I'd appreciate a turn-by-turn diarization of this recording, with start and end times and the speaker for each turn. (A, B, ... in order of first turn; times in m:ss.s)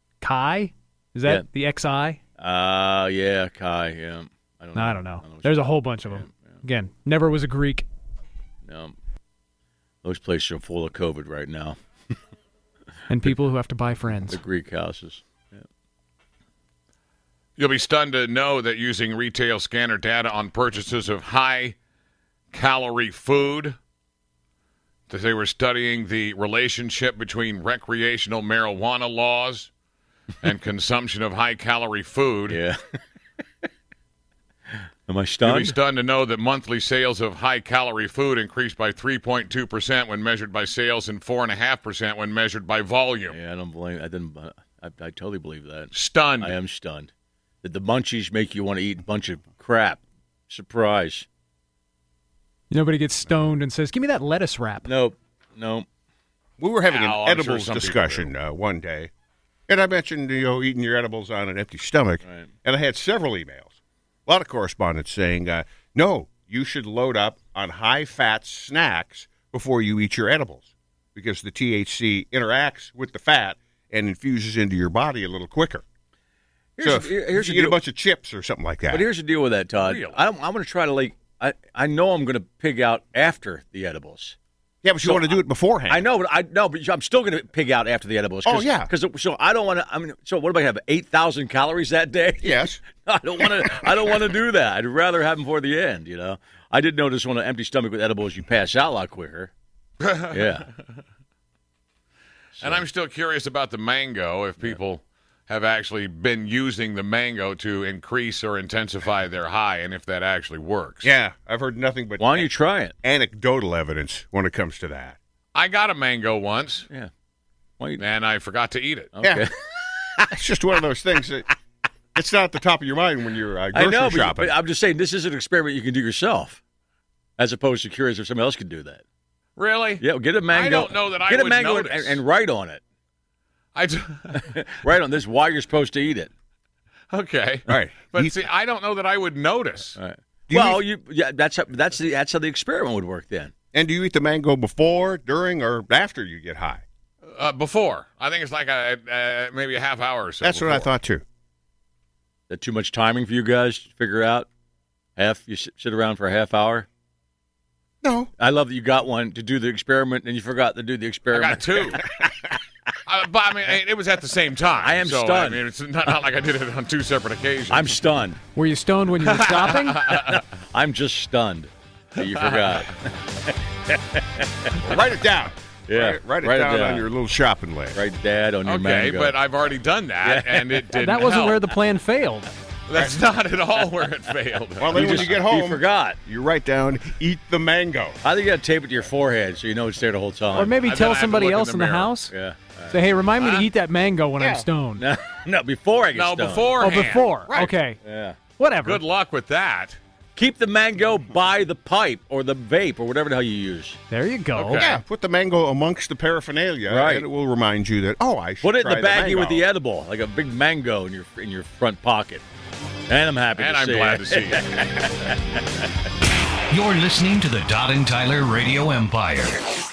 0:00.2-0:02.2 A
0:02.4-0:06.5 B
0:04.8-0:07.9 A
0:08.6-0:09.0 B
0:10.0-0:12.1 B
0:13.1-0:14.4 A
0:14.3-0:15.6 B
0:17.6-0:21.8 C
0:22.5-0:23.8 C
0:25.1-0:29.7 C
0:30.4-0:32.6 C
0:32.5-0:33.0 B
0:35.1-0:35.8 B
0:35.4-0:43.4 C
0:43.3-0:47.1 B
0:45.9-0:46.5 C
0:47.6-0:51.3 B
0:52.7-0:54.9 A
0:54.9-0:55.9 B
0:56.6-0:59.1 D
0:56.9-0:58.3 C
0:59.7-1:03.8 D
1:02.2-1:02.5 B
1:04.3-1:15.8 D
1:16.8-1:17.8 B
1:16.8-1:19.1 D
1:18.9-1:24.4 B
1:19.8-1:20.2 C
1:24.8-1:26.1 D
1:25.0-1:39.5 B
1:28.4-1:28.9 D
1:32.4-1:32.8 D
1:40.0-1:40.4 C
1:40.3-1:40.7 B
1:42.6-1:42.8 B
1:42.6-1:51.1 C
1:51.0-1:52.5 D
1:52.2-1:52.9 B
1:53.0-1:55.2 D
1:55.6-1:56.9 C
1:58.0-1:59.1 C
1:59.1-2:00.3 B
1:59.2-1:59.5 D
2:00.3-2:01.5 D
2:02.2-2:04.5 D
2:03.7-2:06.6 B
2:07.4-2:09.0 B
2:09.6-2:12.2 C
2:10.0-2:12.8 B
2:13.8-2:14.6 C
2:14.3-2:16.3 B
2:17.1-2:20.0 C
2:17.7-2:18.3 D
2:20.0-2:23.5 B
2:20.5-2:20.8 D
2:23.7-2:26.8 D
2:27.3-2:30.9 C
2:30.4-2:31.2 D
2:32.5-2:34.5 B
2:35.2-2:36.9 B
2:38.0-2:38.3 D
2:38.4-2:42.0 B
2:41.3-2:42.0 C
2:42.0-2:42.4 D
2:43.1-2:47.9 C
2:44.8-2:46.2 B
2:47.7-2:48.4 B
2:48.6-2:50.1 A
2:49.2-2:50.4 C
2:50.1-2:54.8 B
2:52.2-2:52.8 C
2:54.8-2:58.0 D
2:55.9-2:57.1 B
2:57.9-2:59.4 B
2:58.7-3:01.6 C
3:00.2-3:01.6 B
3:00.9-3:02.5 A
3:02.9-3:05.2 C
3:04.8-3:08.2 D
3:04.8-3:06.2 B
3:08.2-3:10.8 B
3:10.5-3:12.3 A
3:10.6-3:12.1 C
3:12.3-3:13.0 B
3:12.9-3:15.0 A
3:13.4-3:13.7 C
3:14.4-3:16.8 B
3:16.1-3:17.7 C
3:16.8-3:18.0 A
3:18.0-3:18.4 B
3:18.6-3:19.0 A
3:18.8-3:20.0 C
3:20.4-3:24.0 B
3:24.1-3:24.8 A
3:24.6-3:25.0 C
3:24.8-3:29.6 D
3:26.9-3:27.3 B
3:28.6-3:32.4 B
3:33.1-3:35.6 B
3:33.6-3:34.8 C
3:36.7-3:39.6 E